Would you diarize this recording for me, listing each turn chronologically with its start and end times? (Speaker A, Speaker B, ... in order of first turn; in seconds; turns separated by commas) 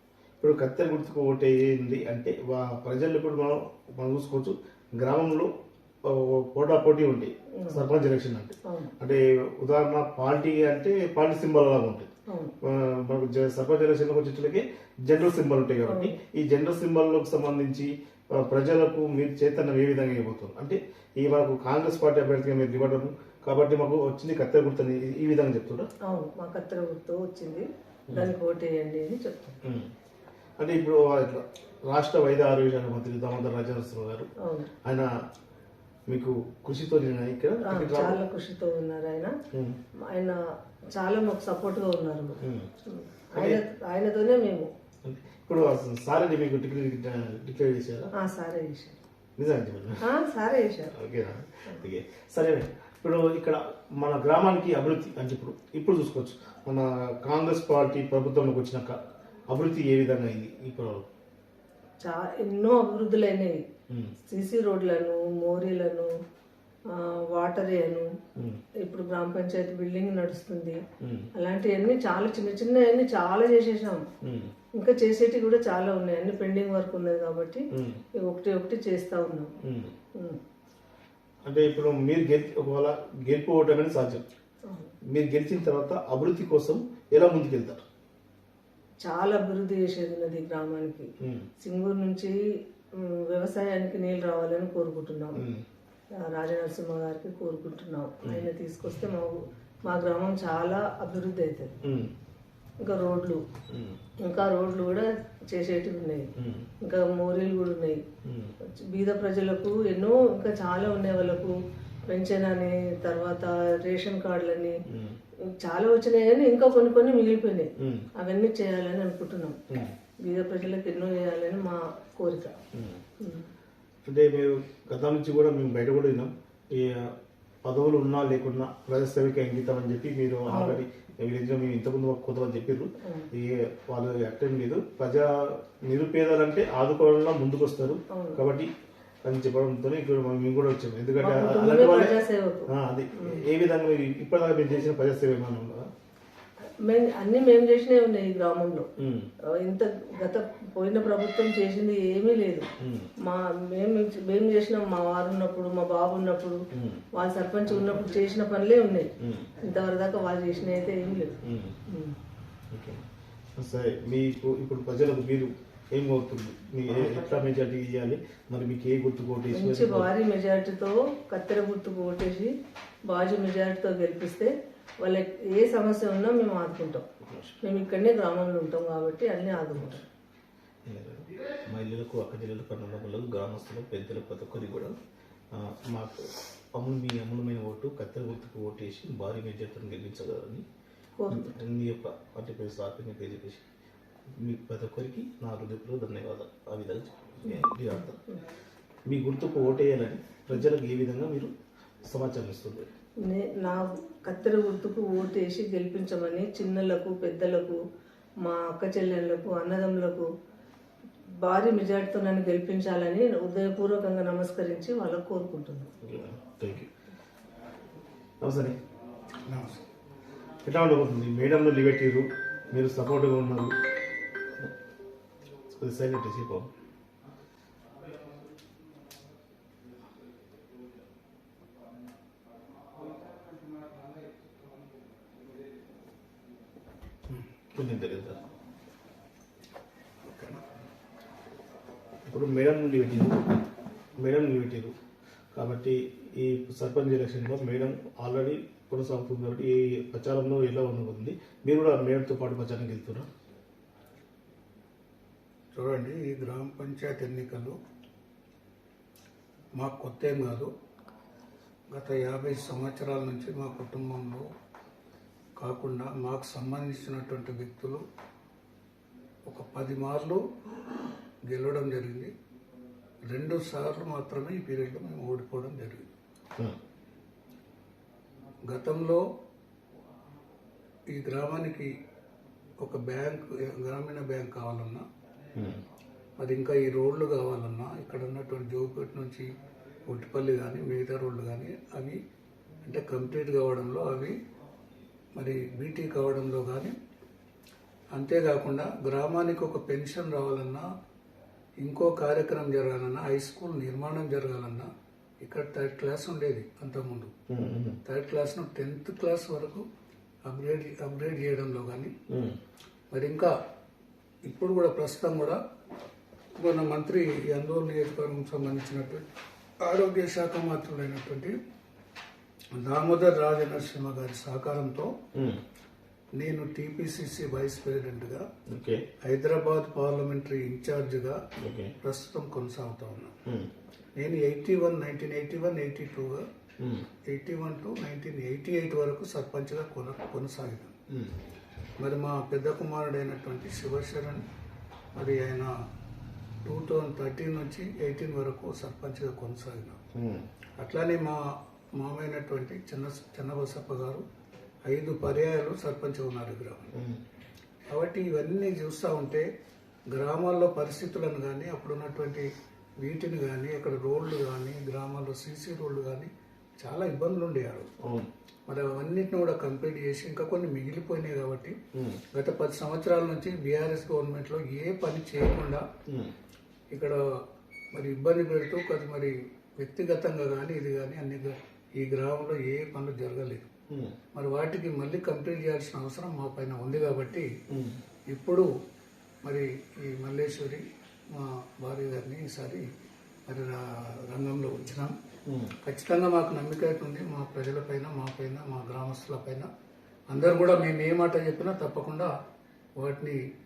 Speaker A: 0.4-5.5, Speaker A: 6.0-12.1, Speaker B: 7.6-7.8, Speaker B: 8.7-8.9, Speaker B: 12.3-12.5, Speaker A: 12.6-25.9, Speaker B: 15.9-16.1, Speaker B: 26.1-29.6, Speaker A: 29.6-29.9, Speaker A: 30.6-34.3, Speaker B: 34.4-34.7, Speaker A: 34.8-35.1, Speaker A: 36.1-38.2, Speaker B: 37.6-39.3, Speaker A: 39.5-39.8, Speaker B: 40.1-40.4, Speaker B: 40.9-44.7, Speaker A: 42.4-42.7, Speaker A: 45.0-48.1, Speaker B: 48.1-49.0, Speaker A: 49.4-50.0, Speaker B: 50.0-51.0, Speaker A: 50.9-59.0, Speaker A: 59.5-61.0, Speaker B: 62.0-63.6, Speaker B: 64.2-66.1, Speaker B: 66.9-68.1, Speaker A: 68.3-68.6, Speaker B: 68.8-70.8, Speaker A: 71.0-71.3, Speaker B: 71.3-74.0, Speaker A: 74.2-74.5, Speaker B: 74.8-79.5, Speaker A: 77.7-78.0, Speaker A: 79.6-79.9, Speaker A: 81.4-84.2, Speaker B: 84.7-84.9, Speaker A: 85.1-87.8, Speaker B: 89.0-91.1, Speaker A: 91.2-91.5, Speaker B: 91.6-92.3, Speaker B: 93.0-95.4, Speaker A: 95.4-95.6, Speaker B: 96.3-101.7, Speaker A: 101.8-102.1, Speaker B: 102.8-103.4, Speaker A: 103.7-104.0, Speaker B: 104.2-106.3, Speaker A: 106.4-106.7, Speaker B: 106.8-108.0, Speaker A: 108.2-108.5, Speaker B: 108.9-111.5, Speaker B: 112.1-114.8, Speaker A: 114.9-115.2, Speaker B: 115.6-119.6, Speaker A: 117.8-118.1, Speaker B: 120.2-122.5, Speaker A: 122.7-123.0, Speaker B: 123.2-123.5, Speaker A: 124.0-138.7, Speaker B: 130.5-130.8, Speaker B: 133.0-133.3, Speaker B: 138.1-138.4, Speaker A: 139.2-142.2, Speaker B: 141.2-143.4, Speaker A: 142.7-145.9, Speaker B: 146.8-148.9, Speaker A: 149.0-149.3, Speaker B: 149.6-152.7, Speaker A: 152.8-153.1, Speaker B: 153.2-161.3, Speaker A: 156.7-157.0, Speaker A: 159.2-159.5, Speaker A: 161.4-161.8, Speaker B: 161.9-162.2, Speaker A: 162.7-163.0, Speaker A: 163.6-170.1, Speaker B: 169.5-172.5, Speaker B: 173.1-177.1, Speaker A: 177.2-177.6, Speaker B: 177.6-180.1, Speaker A: 180.8-184.9, Speaker A: 185.5-190.6, Speaker B: 191.2-191.5, Speaker A: 191.3-193.6, Speaker A: 194.4-198.2, Speaker A: 199.1-201.5, Speaker A: 202.1-202.9, Speaker B: 203.2-207.8, Speaker B: 208.4-210.3, Speaker B: 211.3-215.9, Speaker A: 216.0-216.9, Speaker A: 218.4-218.8, Speaker C: 219.4-219.8, Speaker A: 220.6-223.7, Speaker A: 225.7-226.7, Speaker A: 237.7-238.4, Speaker C: 240.2-240.6, Speaker A: 242.2-243.6, Speaker A: 244.2-244.9, Speaker A: 245.5-253.3, Speaker C: 255.7-257.8, Speaker C: 259.7-260.7, Speaker C: 261.9-264.5, Speaker C: 265.6-268.0, Speaker C: 269.4-270.4, Speaker C: 271.5-272.3, Speaker C: 273.3-276.1, Speaker C: 278.6-279.2, Speaker C: 281.1-281.9, Speaker C: 282.8-285.0, Speaker A: 285.5-285.8, Speaker C: 286.4-289.5, Speaker C: 290.1-292.2, Speaker C: 292.8-294.4, Speaker C: 295.3-296.9, Speaker C: 298.1-300.9, Speaker C: 301.8-304.9, Speaker C: 305.4-307.3, Speaker A: 307.5-308.0, Speaker C: 308.1-309.8, Speaker C: 310.4-312.1, Speaker A: 312.3-312.6, Speaker C: 313.1-313.5, Speaker C: 314.4-315.6, Speaker C: 316.6-319.2, Speaker C: 319.8-321.6, Speaker C: 322.7-325.1, Speaker A: 325.3-325.6, Speaker C: 326.4-328.4, Speaker A: 328.7-329.1, Speaker C: 329.2-331.4, Speaker A: 331.6-331.9, Speaker C: 332.0-333.3, Speaker C: 334.2-336.4, Speaker A: 336.8-337.1, Speaker C: 337.2-340.9, Speaker A: 341.1-341.3, Speaker C: 342.0-344.4, Speaker C: 345.1-345.7, Speaker C: 346.6-350.0, Speaker A: 350.1-350.4, Speaker C: 350.8-351.4, Speaker C: 351.9-354.2, Speaker C: 354.9-356.9, Speaker A: 356.9-357.2, Speaker C: 357.9-359.5, Speaker C: 360.1-362.5, Speaker C: 363.0-367.9, Speaker A: 368.0-368.3, Speaker C: 368.7-371.8, Speaker A: 371.9-372.2, Speaker C: 372.3-375.9, Speaker A: 376.1-376.3, Speaker C: 376.9-377.2, Speaker C: 377.9-383.7, Speaker A: 383.9-384.2, Speaker C: 384.3-387.5, Speaker A: 387.7-388.0, Speaker C: 388.3-388.7, Speaker C: 389.4-392.9, Speaker C: 393.5-395.1, Speaker A: 395.4-395.8, Speaker C: 395.8-399.7, Speaker C: 400.3-402.3, Speaker C: 403.0-403.4